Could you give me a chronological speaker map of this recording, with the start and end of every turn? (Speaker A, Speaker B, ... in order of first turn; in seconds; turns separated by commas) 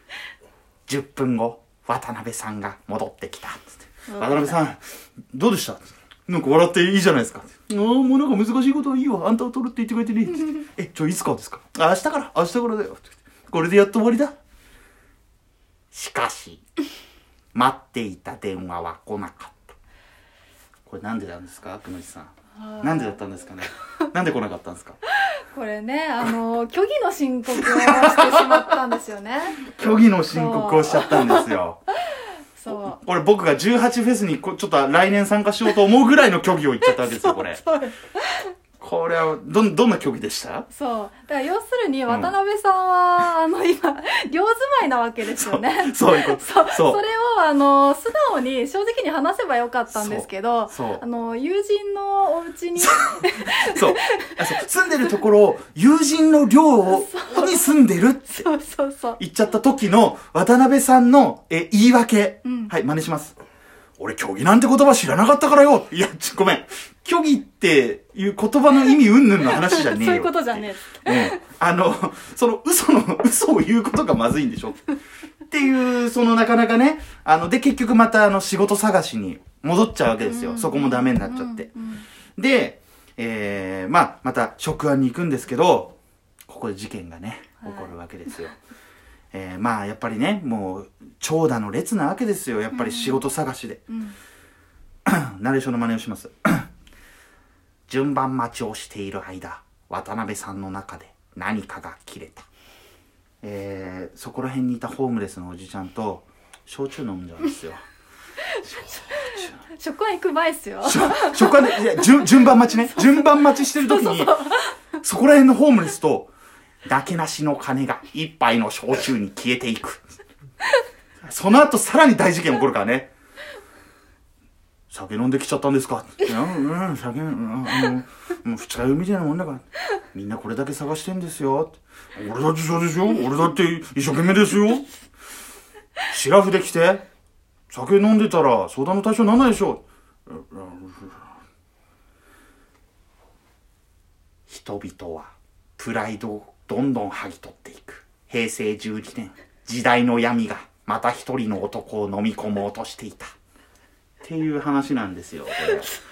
Speaker A: 0.9-14.3, Speaker B: 4.1-4.6, Speaker A: 15.9-16.6, Speaker A: 17.5-19.8, Speaker A: 20.9-25.0, Speaker B: 22.6-23.2, Speaker B: 25.4-29.6, Speaker A: 27.6-28.7, Speaker A: 29.6-31.8, Speaker B: 30.3-31.5, Speaker B: 32.1-33.0, Speaker A: 32.7-37.6, Speaker B: 36.8-38.5, Speaker A: 38.8-40.7, Speaker B: 40.7-54.5, Speaker A: 42.1-42.3, Speaker A: 45.3-47.0, Speaker A: 49.9-51.0, Speaker A: 52.8-58.5, Speaker B: 56.9-59.2, Speaker A: 59.2-63.4, Speaker B: 62.4-62.7, Speaker A: 64.0-74.8, Speaker B: 69.4-71.4, Speaker A: 75.5-81.7, Speaker B: 80.2-82.0, Speaker A: 82.4-85.9, Speaker A: 86.5-88.6, Speaker B: 87.6-87.9, Speaker A: 89.3-93.8, Speaker B: 92.7-93.2, Speaker B: 93.9-94.2, Speaker A: 95.0-96.7, Speaker A: 97.9-102.5, Speaker A: 103.4-107.8, Speaker A: 108.6-109.6, Speaker B: 109.1-114.7, Speaker A: 110.8-114.5, Speaker A: 115.0-116.3, Speaker A: 116.8-120.0, Speaker A: 121.2-123.1, Speaker A: 124.9-134.9, Speaker A: 136.0-137.0, Speaker A: 137.7-141.3, Speaker A: 144.5-153.3, Speaker A: 154.2-155.9